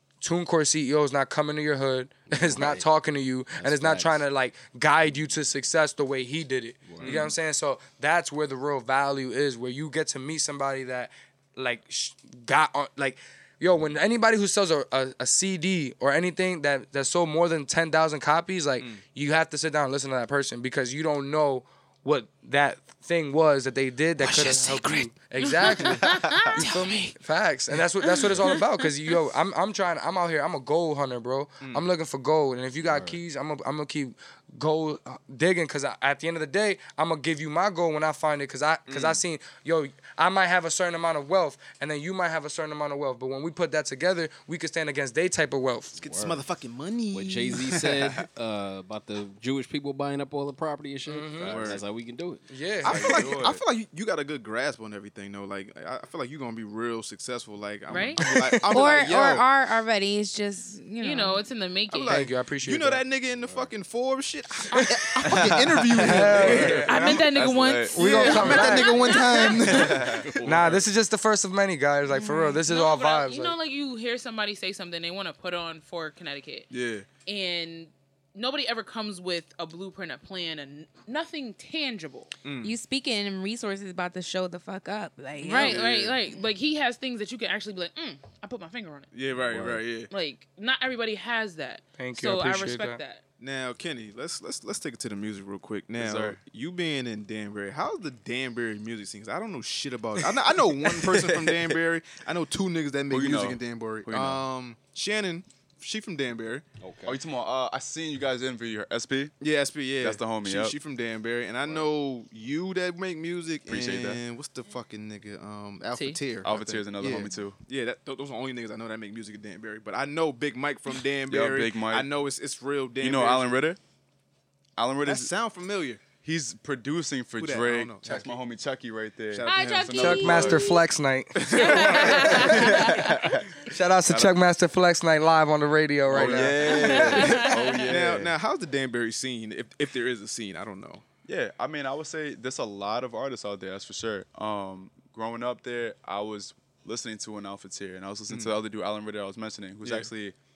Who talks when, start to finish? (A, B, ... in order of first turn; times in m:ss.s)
0:00.2-0:46.0 A
0:02.3-0:02.9 B
0:03.6-0:04.2 B
0:06.9-0:07.3 B
0:07.0-0:07.3 C
0:24.2-0:24.7 C
0:24.3-0:27.1 D
0:28.0-0:28.8 D
0:31.6-0:31.8 C
0:32.8-0:33.2 B
0:38.9-0:39.2 C
0:46.0-0:46.4 B
0:46.0-0:48.2 C
0:47.1-0:52.4 B
0:51.0-0:51.7 A
0:51.5-0:51.8 C
0:52.5-0:53.3 A
0:52.8-0:59.4 C
0:52.8-0:53.6 E
0:57.9-0:58.2 D
0:58.2-0:58.6 A
0:58.7-1:01.4 F
1:01.0-1:02.2 D
1:01.9-1:07.3 C
1:02.0-1:03.0 A
1:03.3-1:03.7 B
1:04.7-1:05.3 A
1:05.3-1:08.7 E
1:05.9-1:07.2 A
1:06.8-1:09.9 D
1:07.9-1:10.8 C
1:07.9-1:09.1 A
1:09.6-1:10.8 E
1:10.1-1:10.4 B
1:10.4-1:13.6 A
1:12.1-1:16.7 D
1:16.7-1:17.0 C
1:17.2-1:22.3 D
1:22.4-1:22.7 C
1:22.6-1:25.8 F
1:25.4-1:29.1 D
1:25.6-1:26.2 C
1:29.1-1:30.1 C
1:29.5-1:29.8 B
1:30.1-1:33.2 D
1:31.9-1:33.0 A
1:33.4-1:46.6 C
1:36.0-1:36.4 E
1:41.1-1:41.7 E
1:43.1-1:44.4 E
1:46.8-1:47.2 B
1:47.0-1:49.3 E
1:49.4-2:03.6 C
1:50.0-1:50.8 E
1:53.7-1:54.2 E
1:55.9-1:56.2 D
1:56.4-1:57.6 E
2:01.3-2:02.1 E
2:03.0-2:03.8 E
2:04.8-2:05.3 E
2:05.0-2:06.0 C
2:06.2-2:10.7 E
2:07.4-2:08.4 C
2:09.3-2:10.6 C
2:09.4-2:10.9 D
2:10.0-2:12.6 A
2:11.4-2:12.8 C
2:11.4-2:13.4 D
2:12.1-2:13.4 E
2:13.7-2:17.4 A
2:14.0-2:14.4 E
2:16.1-2:18.3 E
2:16.1-2:21.0 C
2:16.7-2:17.8 D
2:21.2-2:30.3 E
2:28.3-2:28.6 C
2:29.8-2:30.1 C